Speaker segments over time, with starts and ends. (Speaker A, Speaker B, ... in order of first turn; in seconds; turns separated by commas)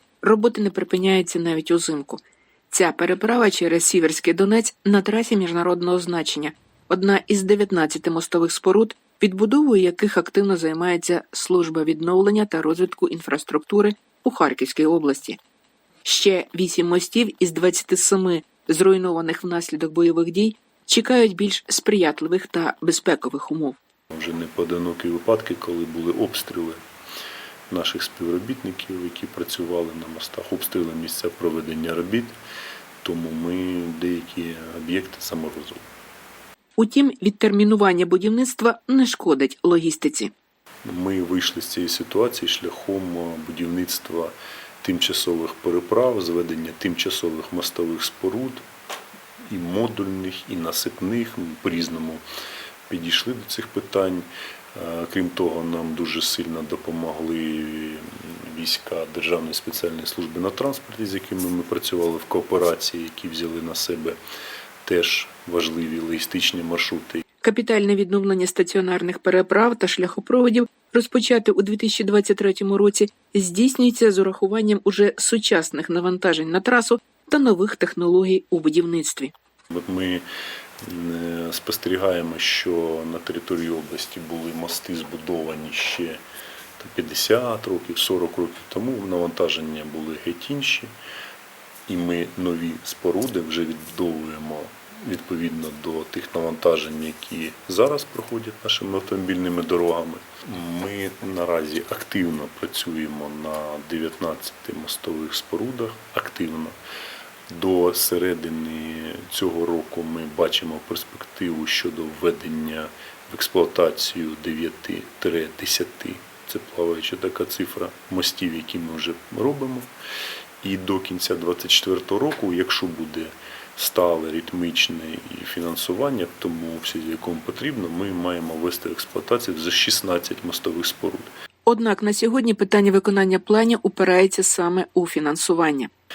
Speaker A: 0.2-15.4, Speaker A: 16.0-23.8, Speaker B: 24.1-26.8, Speaker B: 27.7-32.4, Speaker B: 33.0-35.8, Speaker A: 36.8-40.3, Speaker B: 40.8-48.6, Speaker B: 49.5-52.2, Speaker B: 52.9-64.2, Speaker B: 64.8-67.2, Speaker A: 67.4-79.3, Speaker B: 79.7-80.2, Speaker B: 80.8-86.2, Speaker B: 86.8-90.9, Speaker B: 91.9-106.8, Speaker B: 107.5-119.9, Speaker B: 120.6-131.3, Speaker A: 131.7-135.9